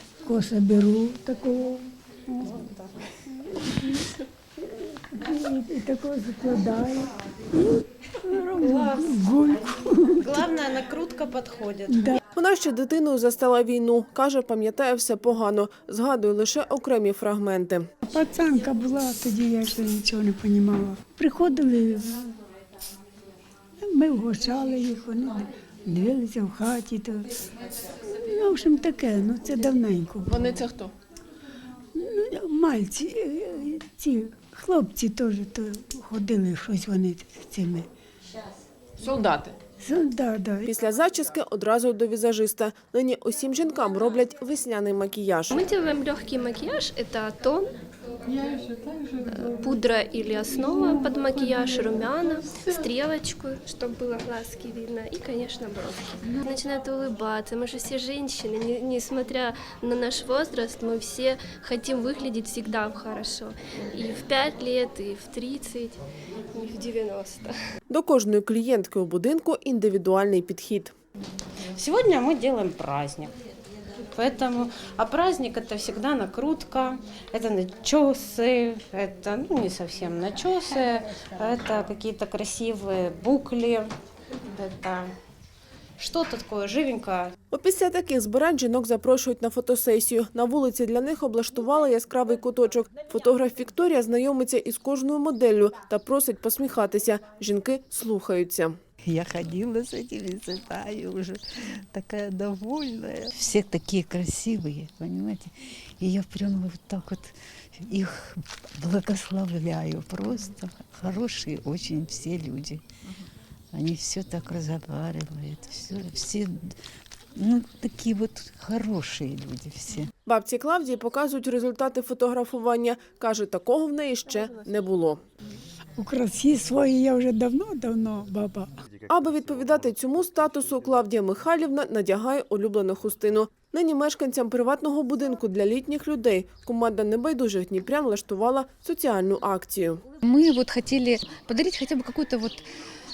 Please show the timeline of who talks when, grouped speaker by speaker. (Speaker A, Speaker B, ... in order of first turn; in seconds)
Speaker A: 0.2-2.7, 3.3-10.5, 11.9-12.2, 18.1-22.3, 23.8-27.3, 28.1-30.4, 31.9-37.9, 39.8-40.7, 126.0-128.7
Speaker B: 2.5-2.9, 8.6-9.2, 10.2-12.2, 71.7-73.3, 74.1-83.9, 84.5-85.1, 86.0-87.3
Speaker C: 12.3-17.9, 30.3-30.9, 39.0-39.5, 40.6-45.6, 67.9-70.9, 87.5-98.7, 120.2-125.2, 129.1-140.0
Speaker D: 45.5-47.7, 49.2-66.0, 66.5-67.5
Speaker E: 99.0-112.8, 113.7-116.8, 117.3-120.1
Speaker F: 140.2-142.6